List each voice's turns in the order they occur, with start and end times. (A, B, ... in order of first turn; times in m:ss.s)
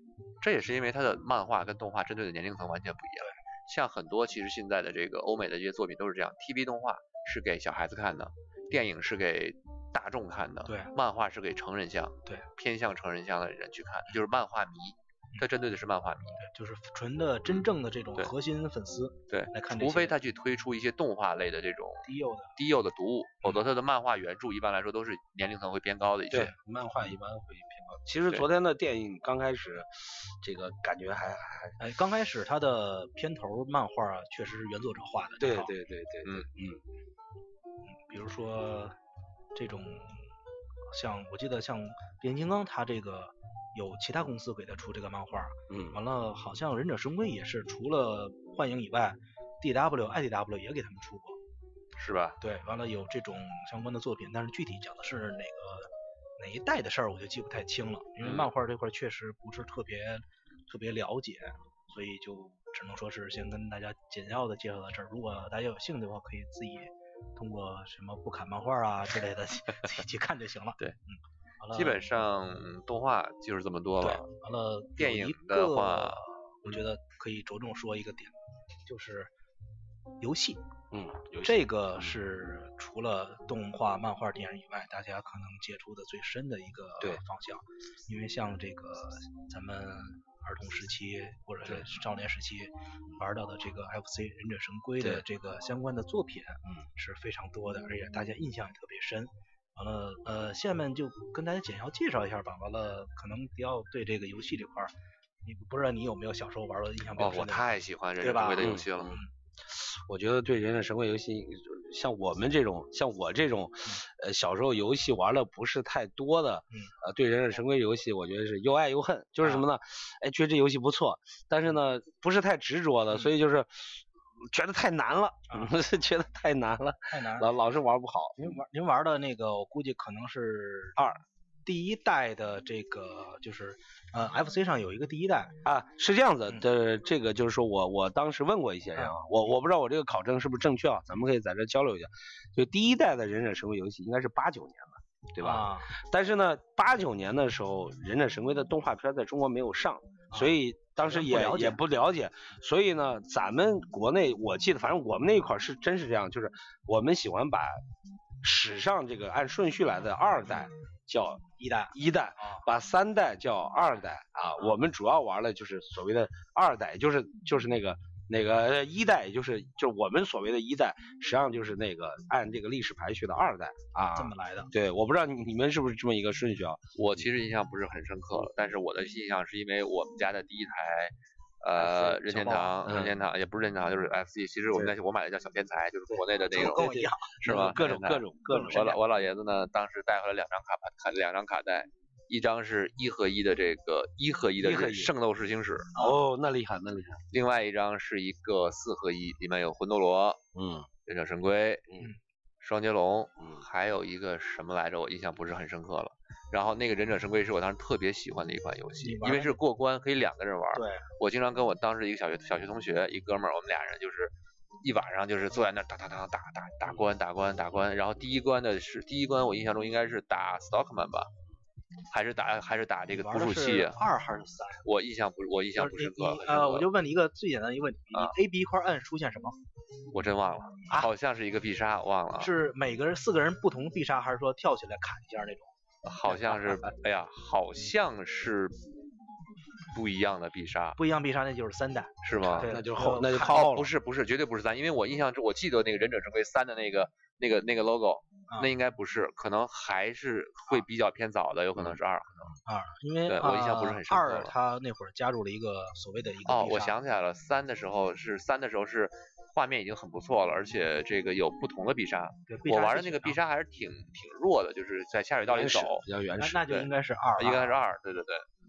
0:00.4-0:16.4 A
0:10.6-0:10.9 B
0:16.4-0:20.2 B
0:19.3-0:26.5 A
0:22.0-0:22.5 B
0:26.3-0:31.8 C
0:31.8-0:35.7 B
0:35.4-0:36.8 C
0:37.9-0:39.0 B
0:39.5-0:40.3 B
0:40.9-0:51.4 B
0:45.7-0:46.0 C
0:52.0-0:52.4 A
0:52.4-1:12.0 B
0:58.2-0:58.5 A
1:11.7-1:14.3 A
1:14.0-1:18.3 B
1:15.0-1:16.2 A
1:18.8-1:19.3 B
1:20.2-1:20.6 B
1:20.9-1:22.1 C
1:21.4-1:44.9 B
1:45.4-1:49.3 B
1:47.2-1:49.2 A
1:48.6-1:48.9 C
1:49.7-2:08.6 C
2:07.1-2:07.5 B
2:08.4-2:11.0 B
2:11.6-2:15.6 B
2:15.6-2:37.8 C
2:25.4-2:25.9 B
2:30.3-2:31.8 B
2:38.4-2:56.8 C
2:41.6-2:42.6 B
2:54.1-2:54.7 B
2:56.9-3:06.9 A
3:01.8-3:02.8 B
3:02.8-3:03.1 C
3:06.5-3:07.8 B
3:06.5-3:08.9 C
3:07.4-3:15.9 A
3:08.4-3:09.0 B
3:14.6-3:15.1 C
3:16.0-3:17.2 C
3:17.3-3:20.4 A
3:20.5-3:20.9 C
3:21.1-3:21.8 A
3:22.6-3:41.3 A
3:29.0-3:29.6 B
3:30.7-3:31.0 B
3:42.1-3:44.0 A
3:43.1-3:44.8 B
3:44.8-3:46.9 A
3:45.8-3:49.6 B
3:50.1-3:52.5 A
3:52.4-3:55.7 B
3:56.0-3:58.8 A
3:59.9-4:01.0 A
4:01.0-4:03.6 B
4:02.2-4:02.7 A
4:02.6-4:03.9 C
4:03.3-4:12.5 A
4:12.6-4:17.0 B
4:13.3-4:14.5 A
4:16.4-4:26.0 A
4:22.5-4:23.4 B
4:25.4-4:26.6 C
4:26.4-4:27.8 B
4:26.7-4:28.5 A